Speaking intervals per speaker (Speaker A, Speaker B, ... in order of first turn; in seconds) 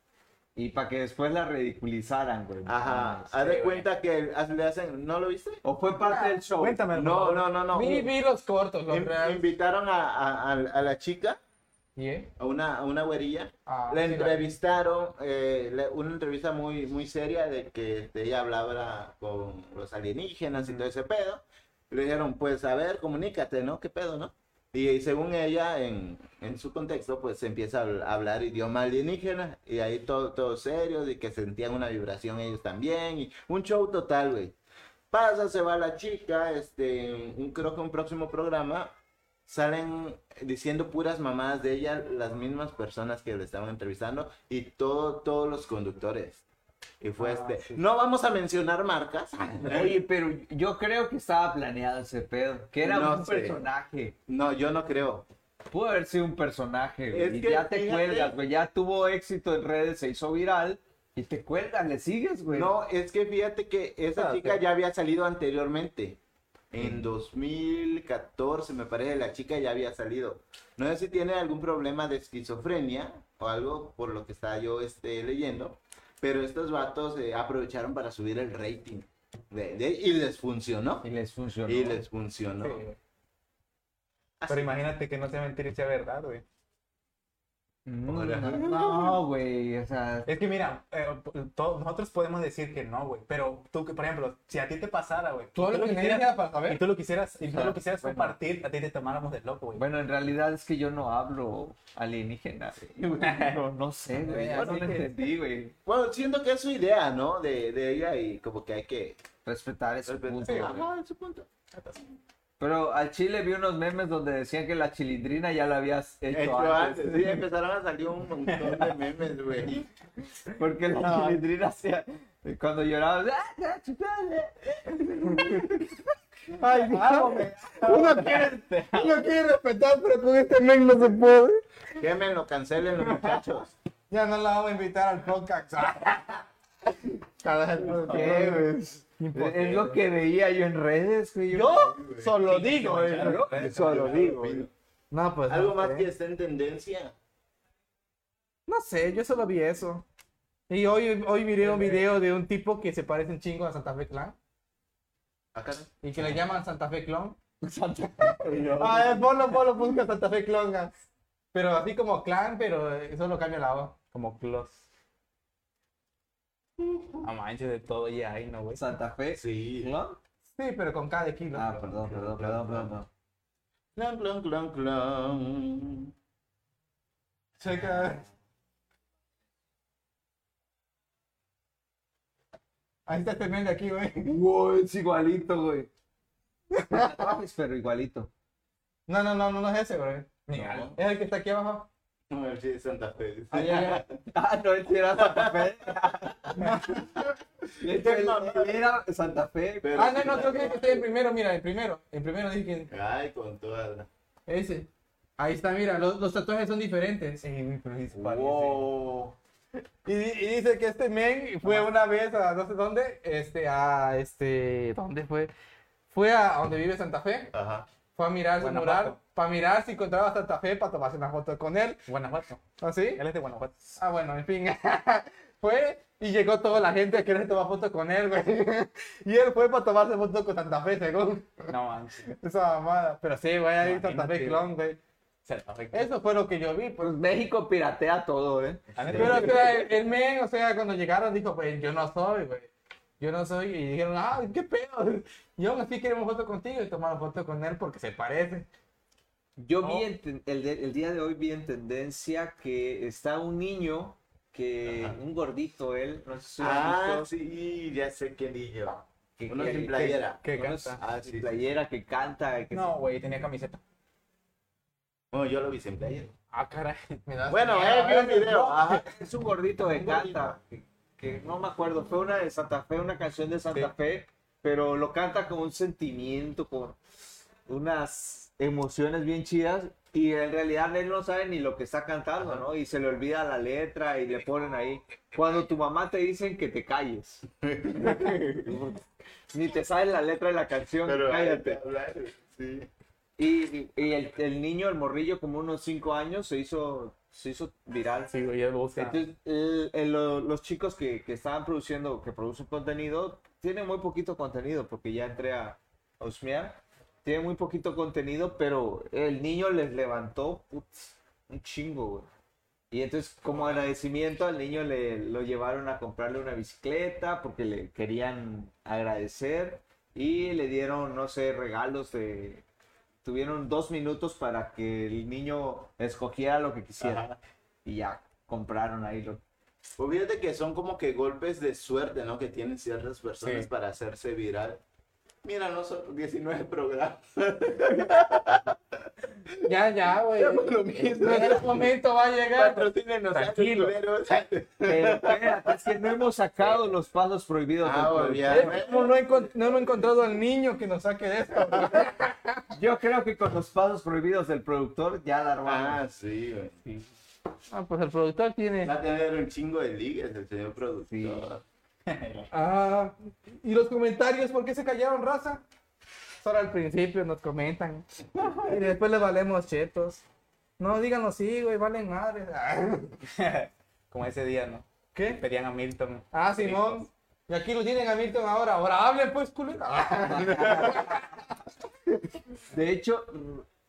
Speaker A: 0.6-3.3, 5.6-6.8, 49.6-54.1, 55.7-62.7, 81.0-82.0, 88.0-90.3, 97.5-98.4, 99.8-105.7, 109.5-110.9, 112.6-117.4, 120.6-128.6, 137.9-142.0, 143.1-144.7, 157.6-159.3, 168.8-170.2, 171.5-173.1, 184.3-185.9, 186.9-188.3, 193.5-196.9, 197.8-200.4, 237.0-239.8, 249.6-257.3, 259.4-262.9, 269.0-277.0, 277.6-291.8, 293.4-298.3, 299.0-312.3, 312.9-322.6, 323.2-327.3, 327.9-329.4, 344.9-348.8, 352.7-356.0, 361.1-361.5, 380.2-381.3, 382.7-383.6
Speaker B: 2.7-5.6, 6.9-8.1, 8.9-11.4, 12.4-34.5, 35.1-38.9, 39.5-46.4, 47.0-50.0, 52.8-53.6, 54.3-55.3, 57.1-58.4, 62.5-66.2, 66.7-81.1, 81.7-82.8, 84.4-84.8, 88.1-89.2, 102.8-103.5, 104.5-104.9, 105.9-109.2, 110.1-111.5, 116.3-119.9, 132.0-133.7, 141.8-142.3, 143.5-144.7, 145.5-147.1, 155.5-155.9, 169.3-169.9, 171.7-172.9, 174.0-176.1, 190.5-190.9, 192.3-194.1, 195.2-197.2, 197.8-198.9, 199.8-201.1, 202.9-204.1, 208.1-209.4, 217.5-217.9, 239.0-239.5, 254.9-255.2, 256.6-261.6, 265.3-266.3, 267.5-269.1, 270.0-270.5, 287.6-288.4, 291.1-292.9, 327.0-327.4, 330.0-334.8, 335.4-338.8, 340.4-341.9, 342.5-345.9, 346.6-346.9, 347.8-350.1, 355.6-356.8, 358.8-361.6
Speaker C: 3.4-3.9, 6.6-7.4, 82.6-83.0, 84.5-86.4, 90.3-99.8, 103.2-103.6, 104.2-105.1, 110.5-110.7, 118.5-118.9, 127.8-129.1, 142.4-144.2, 151.7-152.0, 164.1-164.8, 167.2-168.8, 190.5-191.0, 207.4-208.9, 218.6-219.2, 222.1-222.6, 223.2-224.0, 231.7-232.3, 233.8-234.7, 235.4-236.1, 239.0-239.9, 259.6-261.0, 262.7-263.8, 266.5-267.2, 298.3-299.2, 333.4-333.7, 362.1-362.5, 373.2-377.1
Speaker D: 6.0-6.4, 7.7-9.5, 12.0-12.3, 13.7-14.5, 64.2-64.6, 95.5-96.8, 104.6-104.9, 126.5-131.6, 134.1-136.4, 137.4-140.0, 141.5-143.4, 145.1-146.1, 148.7-150.1, 150.7-154.3, 156.0-157.4, 158.8-160.9, 161.5-163.9, 170.6-171.7, 177.6-178.2, 183.1-184.4, 186.8-187.1, 189.1-190.4, 190.9-191.9, 193.5-194.0, 196.6-197.1, 199.9-202.9, 204.5-207.4, 210.1-215.5, 216.1-217.5, 218.2-222.0, 222.8-223.2, 224.0-231.7, 232.3-235.0, 235.9-237.2, 239.2-248.7, 267.3-269.0, 339.7-343.9, 348.5-352.6, 357.7-358.9, 362.5-365.6, 366.4-370.2, 370.8-373.2, 375.1-375.4, 376.3-381.4